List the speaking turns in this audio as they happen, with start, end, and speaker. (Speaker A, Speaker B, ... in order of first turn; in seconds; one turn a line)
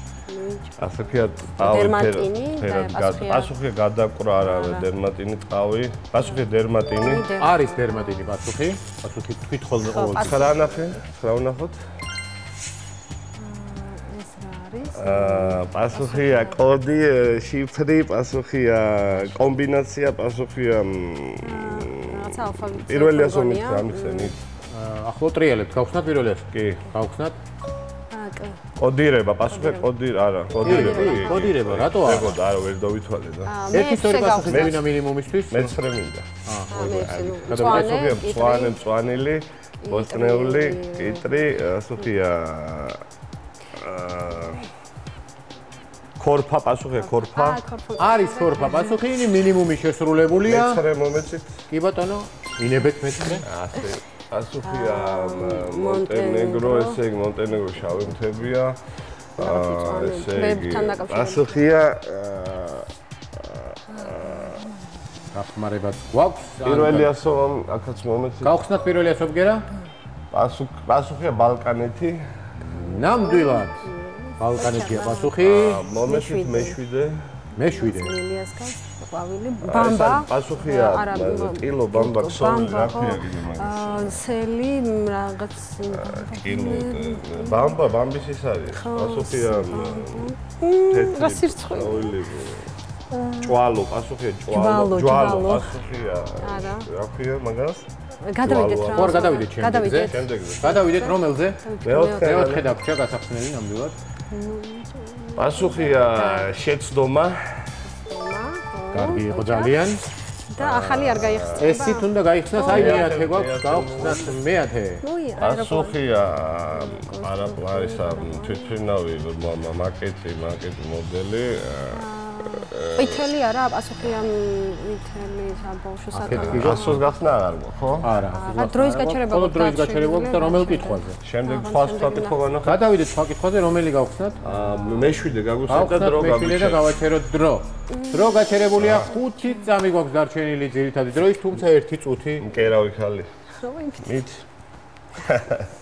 Speaker A: 0.3-0.8
Speaker B: 0.8-7.3
Speaker A: 1.6-3.5
Speaker A: 4.4-4.9
Speaker A: 7.0-8.3
Speaker C: 7.4-10.4
Speaker A: 9.8-11.0
Speaker B: 10.2-11.8
Speaker A: 13.4-16.6
Speaker B: 14.9-24.4
Speaker A: 19.1-19.5
Speaker A: 21.4-24.4
Speaker C: 24.7-27.4
Speaker B: 26.5-26.9
Speaker A: 28.1-28.6
Speaker B: 28.8-34.9
Speaker A: 29.5-29.9
Speaker A: 30.6-31.5
Speaker C: 30.6-32.4
Speaker A: 33.5-34.8
Speaker C: 33.7-35.8
Speaker B: 35.5-43.0
Speaker C: 36.5-38.0
Speaker A: 36.7-38.8
Speaker A: 39.8-41.3
Speaker B: 43.7-44.7
Speaker A: 44.3-44.7
Speaker B: 46.2-47.6
Speaker A: 47.0-49.0
Speaker C: 48.0-50.8
Speaker B: 50.4-51.6
Speaker C: 51.7-53.5
Speaker B: 53.4-64.6
Speaker A: 54.6-57.0
Speaker A: 59.4-61.6
Speaker A: 63.9-64.7
Speaker C: 65.3-67.1
Speaker B: 66.6-68.5
Speaker C: 68.4-69.7
Speaker B: 70.3-72.2
Speaker C: 72.6-73.9
Speaker A: 72.7-76.8
Speaker C: 74.4-75.8
Speaker B: 75.4-77.2
Speaker C: 77.6-78.2
Speaker A: 77.6-87.8
Speaker B: 79.6-84.2
Speaker B: 85.9-90.3
Speaker A: 88.7-92.2
Speaker B: 90.9-92.7
Speaker A: 93.1-93.5
Speaker B: 93.4-97.9
Speaker A: 94.5-95.8
Speaker A: 96.4-96.9
Speaker A: 98.2-102.5
Speaker B: 98.4-100.8
Speaker C: 98.9-101.6
Speaker B: 101.8-102.7
Speaker C: 102.2-104.0
Speaker A: 104.3-106.5
Speaker B: 105.4-107.8
Speaker A: 107.8-109.9
Speaker C: 108.9-110.0
Speaker A: 110.5-113.2
Speaker B: 110.6-111.9
Speaker C: 111.6-115.0
Speaker B: 112.6-114.4
Speaker A: 115.0-116.0
Speaker B: 115.4-123.2
Speaker A: 116.7-118.7
Speaker A: 121.9-127.0
Speaker C: 126.2-127.0
Speaker B: 126.2-128.1
Speaker C: 128.0-131.2
Speaker A: 128.3-132.4
Speaker B: 131.2-132.9
Speaker C: 132.6-134.4
Speaker B: 134.4-136.9
Speaker A: 134.6-135.1
Speaker C: 135.7-142.6
Speaker A: 137.9-139.5
Speaker B: 138.8-139.1
Speaker B: 142.4-143.3
Speaker A: 143.6-144.2
Speaker B: 144.0-144.4
Speaker B: 145.2-145.7